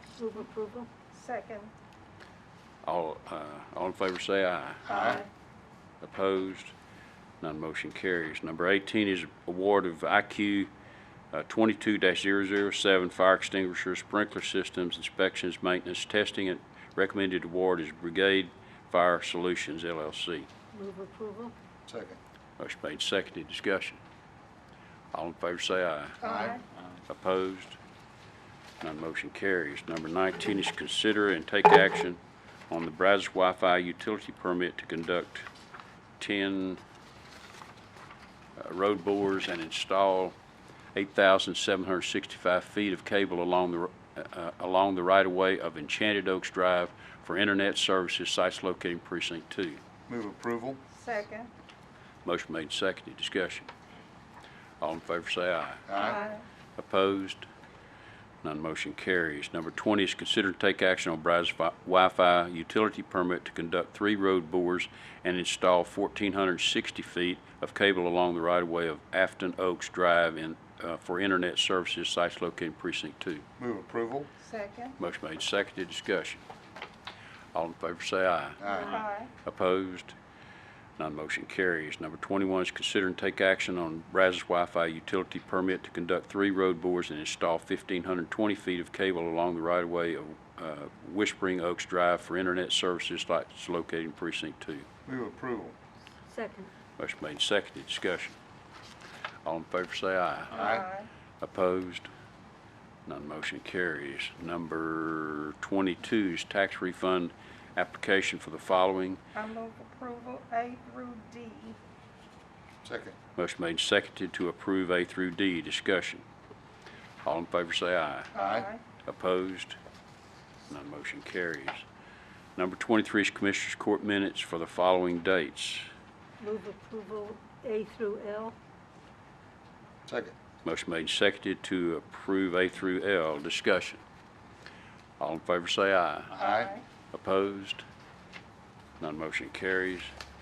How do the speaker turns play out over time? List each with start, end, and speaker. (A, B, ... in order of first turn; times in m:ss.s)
0:00.3-0:00.9 A
0:01.1-0:01.7 B
0:02.8-0:05.2 C
0:04.9-0:05.2 B
0:06.0-0:06.8 C
0:07.4-0:10.7 C
0:11.3-0:20.5 C
0:20.7-0:21.5 A
0:21.9-0:22.2 D
0:22.6-0:24.0 C
0:25.1-0:26.5 C
0:26.2-0:26.6 B
0:27.1-0:27.8 C
0:28.8-0:35.5 C
0:36.2-0:36.8 C
0:38.6-0:40.4 C
0:41.0-0:49.8 C
0:50.1-0:50.8 D
0:50.9-0:51.5 B
0:52.2-0:53.7 C
0:54.8-0:56.2 C
0:55.9-0:56.2 D
0:56.0-0:56.4 B
0:56.8-0:57.5 C
0:58.4-1:13.4 C
1:13.6-1:14.3 D
1:14.4-1:15.0 B
1:15.0-1:16.4 C
1:17.5-1:20.2 C
1:18.6-1:19.0 D
1:18.8-1:19.3 B
1:21.0-1:34.9 C
1:35.1-1:35.8 D
1:36.3-1:36.7 A
1:37.0-1:38.4 C
1:39.4-1:40.8 C
1:40.5-1:41.1 B
1:40.5-1:40.8 D
1:41.4-1:42.1 C
1:43.1-1:49.2 C
1:49.4-1:51.8 B
1:52.8-1:53.2 D
1:53.4-1:56.2 C
1:57.2-1:58.3 C
1:58.3-1:58.8 B
1:58.4-1:58.7 D
1:59.0-1:59.8 C
2:00.7-2:01.8 C
2:02.6-2:05.9 C
2:06.4-2:08.5 A
2:10.1-2:10.4 D
2:10.6-2:14.0 C
2:15.2-2:16.4 C
2:16.3-2:16.8 D
2:16.4-2:16.8 B
2:17.1-2:17.8 C
2:19.0-2:20.1 C